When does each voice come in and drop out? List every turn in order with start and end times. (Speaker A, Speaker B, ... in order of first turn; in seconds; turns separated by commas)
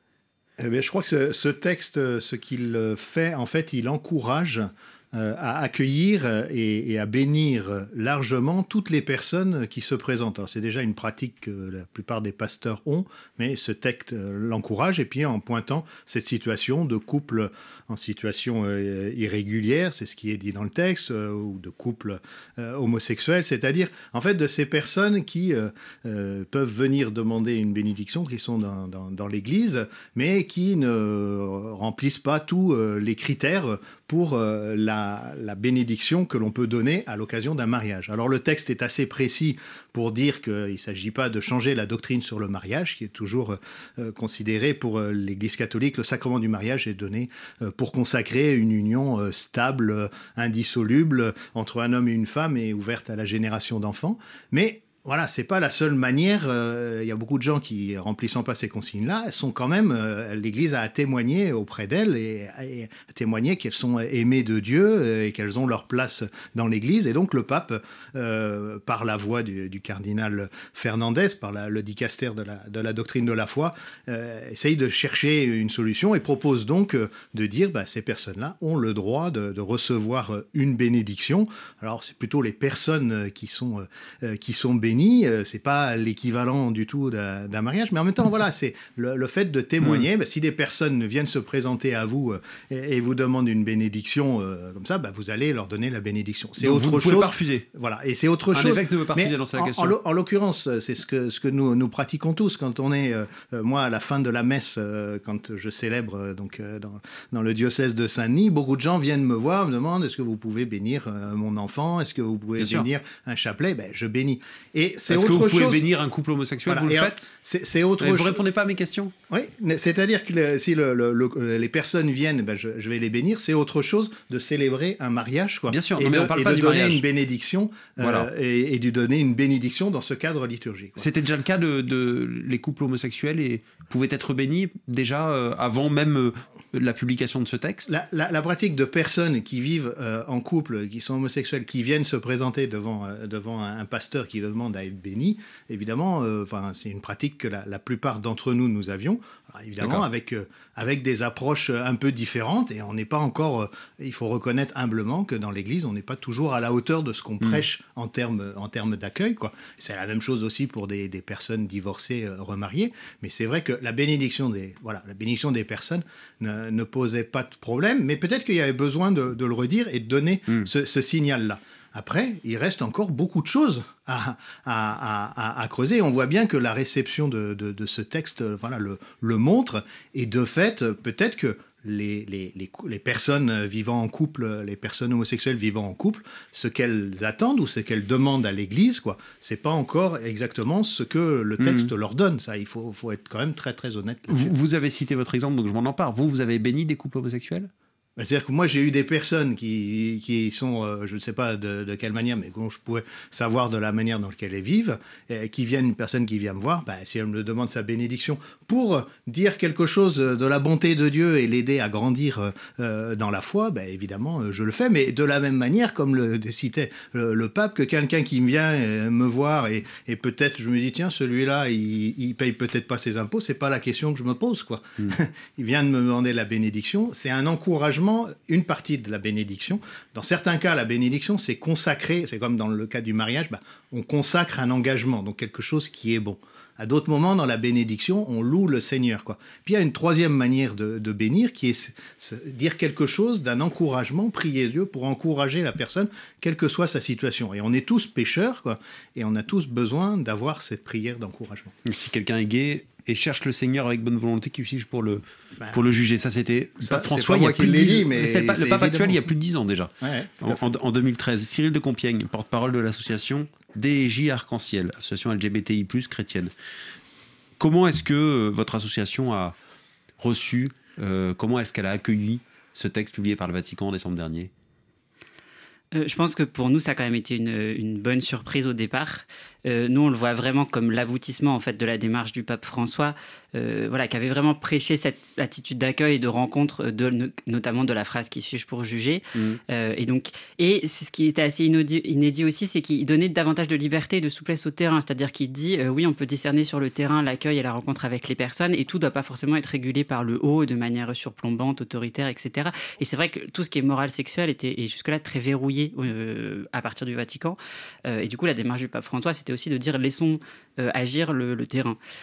Speaker A: 0.6-115.8, Speaker B: 96.6-97.6, Speaker B: 98.5-99.9, Speaker B: 112.6-112.8, Speaker B: 115.1-117.3, Speaker A: 116.7-118.4, Speaker B: 118.0-119.1, Speaker A: 119.3-131.1, Speaker B: 125.7-127.0, Speaker B: 128.0-128.3, Speaker B: 131.0-137.9, Speaker A: 137.9-194.5, Speaker B: 191.6-191.9, Speaker B: 194.3-197.7, Speaker A: 198.2-251.7, Speaker B: 251.8-266.5, Speaker A: 256.8-259.2, Speaker A: 260.0-260.6, Speaker B: 267.6-269.6, Speaker B: 270.2-274.5, Speaker C: 275.9-312.0, Speaker B: 289.3-289.6